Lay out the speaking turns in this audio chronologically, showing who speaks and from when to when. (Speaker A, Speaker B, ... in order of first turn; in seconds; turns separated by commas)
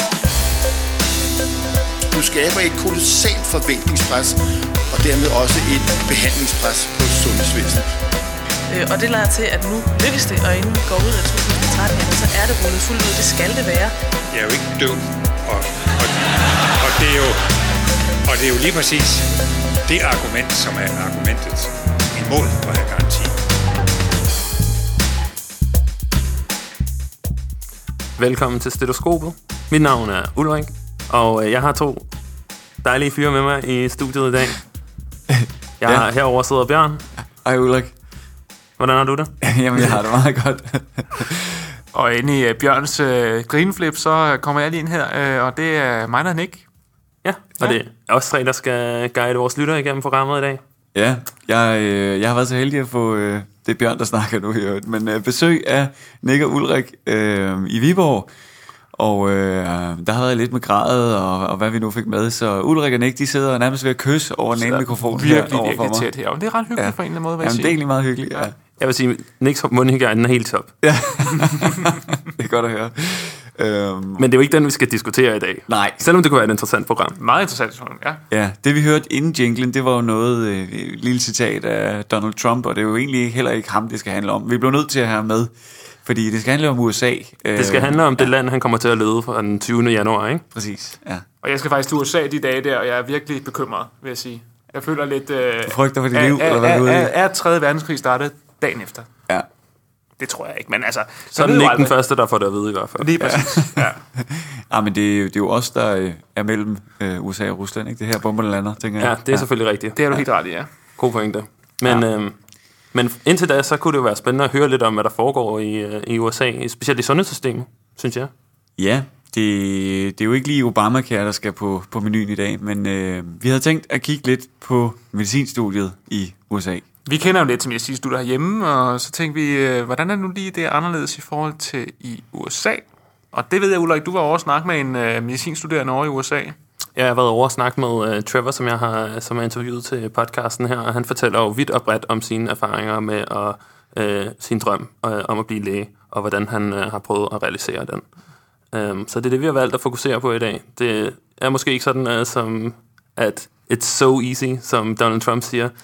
Speaker A: 2.1-4.4, Speaker A: 4.9-7.9, Speaker B: 8.7-13.9, Speaker C: 14.3-17.4, Speaker C: 18.3-19.3, Speaker C: 19.9-23.4, Speaker D: 28.2-32.1, Speaker D: 32.8-34.6, Speaker E: 35.3-36.0, Speaker D: 35.8-37.0, Speaker E: 37.4-37.9, Speaker D: 38.8-39.3, Speaker E: 39.4-41.7, Speaker F: 41.9-46.6, Speaker D: 47.2-50.6, Speaker E: 50.9-58.3, Speaker E: 58.9-66.1, Speaker F: 64.5-67.8, Speaker E: 66.8-68.5, Speaker D: 68.8-70.7, Speaker E: 70.8-74.2, Speaker D: 74.2-77.2, Speaker E: 75.7-76.0, Speaker F: 77.2-78.2, Speaker E: 78.3-88.3, Speaker D: 87.5-90.4, Speaker E: 90.5-91.2, Speaker F: 91.4-99.1, Speaker E: 95.7-97.1, Speaker F: 100.2-101.9, Speaker D: 101.3-103.4, Speaker F: 103.0-104.0, Speaker E: 103.3-109.5, Speaker D: 109.0-110.0, Speaker F: 110.0-110.7, Speaker D: 111.0-112.3, Speaker D: 112.9-118.3, Speaker E: 118.8-126.8, Speaker F: 127.0-136.6, Speaker D: 136.9-148.1, Speaker D: 148.7-155.7